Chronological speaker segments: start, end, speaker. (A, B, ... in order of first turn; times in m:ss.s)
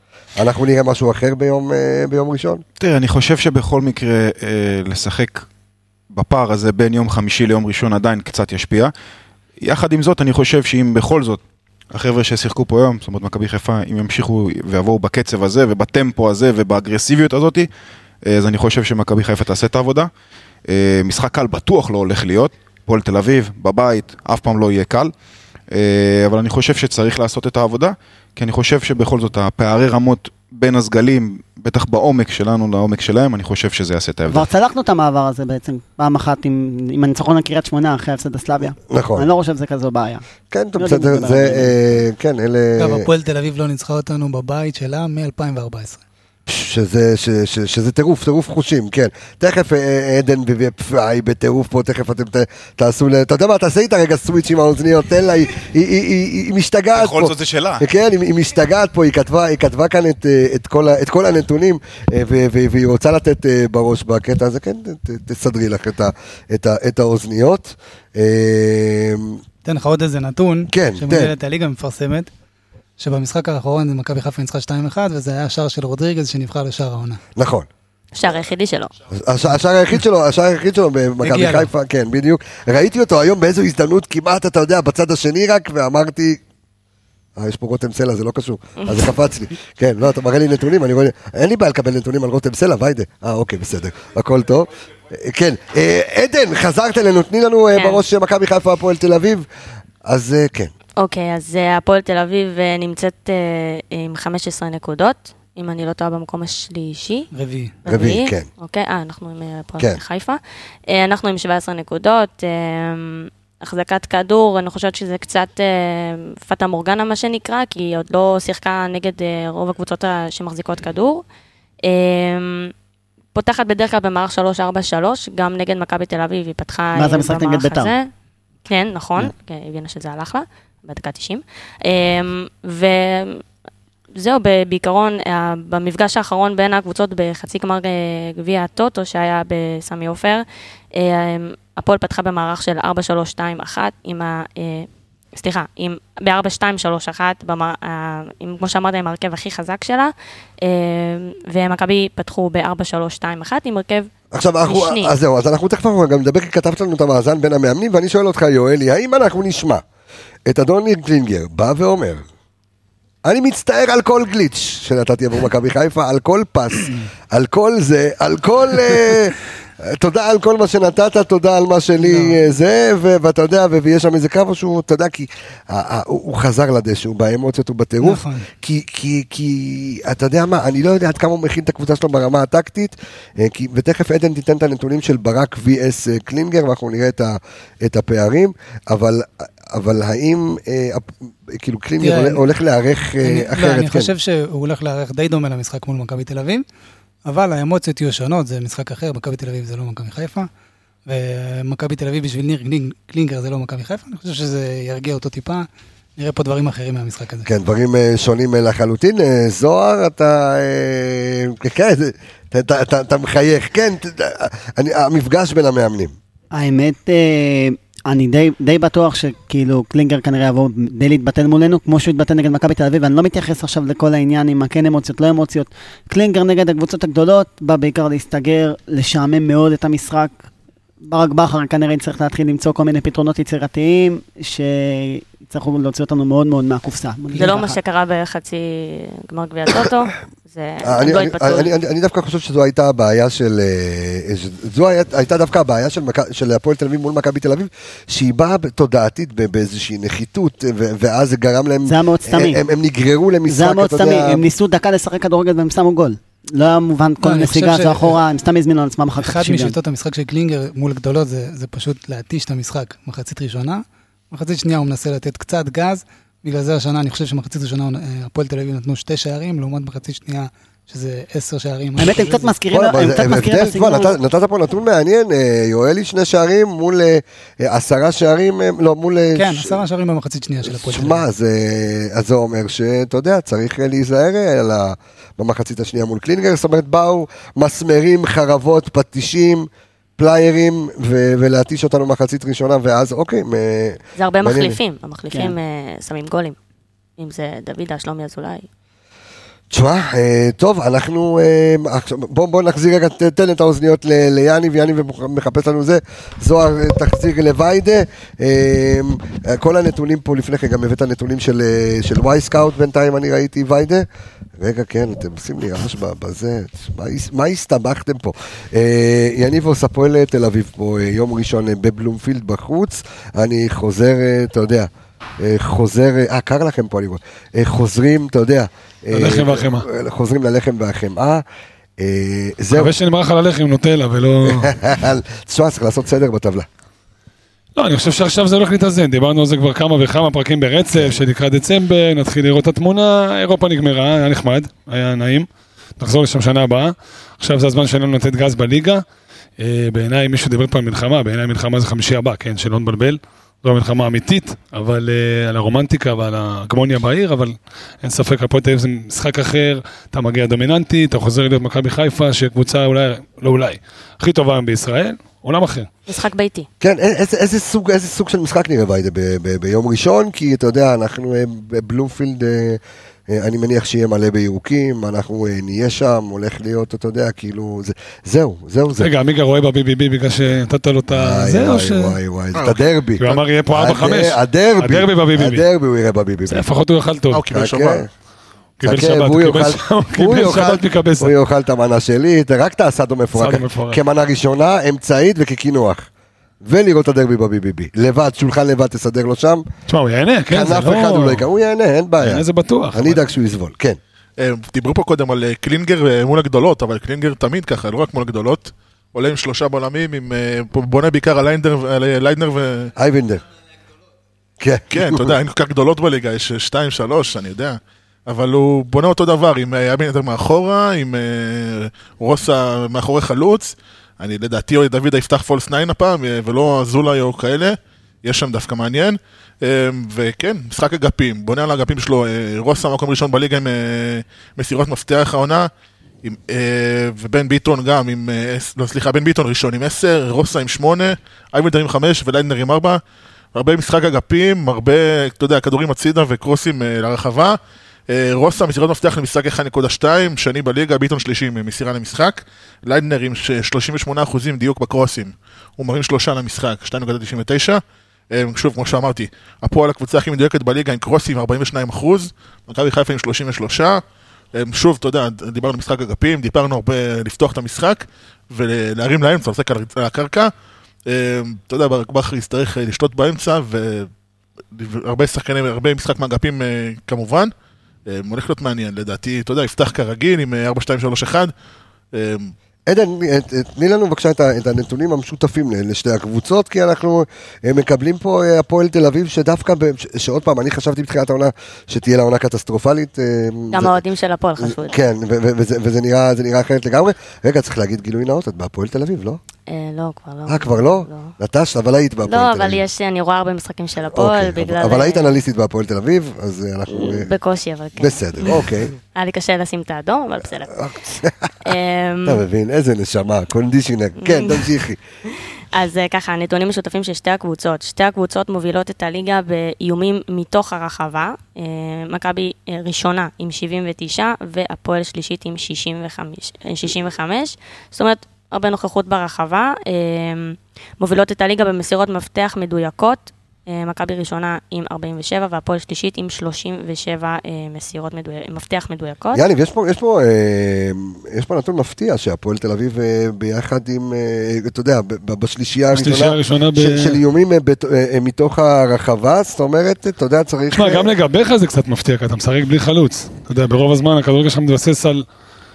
0:00.4-0:02.6 A
0:02.8-0:05.5 B
0:06.1-0:08.9 B
0:09.6-0:17.7 B
0:18.2-0:20.1 B
0:20.7-0:25.1 B
0:25.7-0:34.5 B
0:34.3-0:40.2 C
0:38.9-0:39.3 A
0:40.5-0:43.1 A
0:40.8-0:41.8 C
0:42.8-0:46.0 D
0:46.5-1:09.4 A
0:57.0-0:57.8 B
1:09.6-1:12.3 D
1:10.7-1:11.3 A
1:13.0-1:17.2 D
1:17.4-1:17.7 A
1:18.1-1:18.9 E
1:19.1-1:26.4 A
1:21.2-1:21.7 D
1:27.4-1:39.5 A
1:37.8-1:38.0 E
1:40.0-1:40.7 A
1:41.0-1:47.3 E
1:47.3-1:47.8 D
1:47.8-2:01.2 E
1:47.9-1:48.5 A
2:01.8-2:02.7 E
2:03.4-2:08.1 E
2:07.0-2:08.0 C
2:08.7-2:13.4 E
2:14.2-2:34.1 E
2:34.3-2:39.8 A
2:34.7-2:35.1 E
2:40.5-2:42.2 A
2:43.2-3:14.1 A
2:52.0-2:52.4 D
2:58.0-2:58.5 D
3:12.0-3:12.4 D
3:13.2-3:16.6 D
3:17.3-3:20.5 D
3:21.1-3:27.5 D
3:27.5-3:36.2 A
3:36.5-3:50.4 C
3:51.0-3:57.8 C
3:57.4-4:01.7 E
4:00.8-4:14.4 A
4:11.8-4:12.6 C
4:13.5-4:19.8 C
4:17.2-4:18.2 D
4:19.2-4:32.6 D
4:32.0-4:34.2 C
4:32.7-4:39.8 A
4:39.4-4:41.2 D
4:40.7-4:54.8 A
4:54.2-4:56.6 E
4:57.2-4:58.7 E
4:59.7-5:14.1 A
5:14.6-5:31.4 A
5:29.1-5:29.9 F
5:32.0-5:32.9 A
5:32.7-5:34.8 F
5:34.4-5:36.7 A
5:37.8-5:45.5 F
5:46.0-5:49.0 F
5:49.6-6:05.9 F
6:06.1-6:06.7 E
6:06.8-6:19.1 A
6:19.0-6:22.2 F
6:21.1-6:26.6 A
6:23.2-6:25.6 F
6:26.5-6:27.4 F
6:27.3-6:28.1 G
6:27.5-6:28.1 A
6:28.8-6:31.3 F
6:28.8-6:36.1 A
6:33.4-6:34.0 F
6:36.6-6:39.6 A
6:39.9-6:41.4 F
6:40.5-6:44.0 A
6:42.2-6:43.2 F
6:44.4-6:52.9 G
6:53.0-6:53.4 A
6:54.6-6:55.4 A
6:54.9-7:15.7 G
7:16.2-7:23.0 G
7:23.6-7:27.6 G
7:28.1-7:44.0 G
7:44.5-7:50.5 G
7:51.1-7:54.1 G
7:54.7-7:57.5 G
7:58.1-8:01.5 G
8:02.1-8:02.5 G
8:02.9-8:14.0 A
8:13.7-8:15.0 E
8:14.6-8:19.4 A
8:19.7-8:21.4 E
8:20.5-8:22.8 A
8:22.3-8:25.4 E
8:24.1-8:27.3 A
8:26.9-8:30.8 E
8:28.0-8:28.9 A
8:30.7-8:31.5 A
8:31.6-8:32.4 E
8:32.2-8:35.0 A
8:34.2-8:34.7 E
8:35.7-8:59.4 E
8:59.3-9:11.1 A
9:05.9-9:07.2 F
9:10.7-9:15.2 F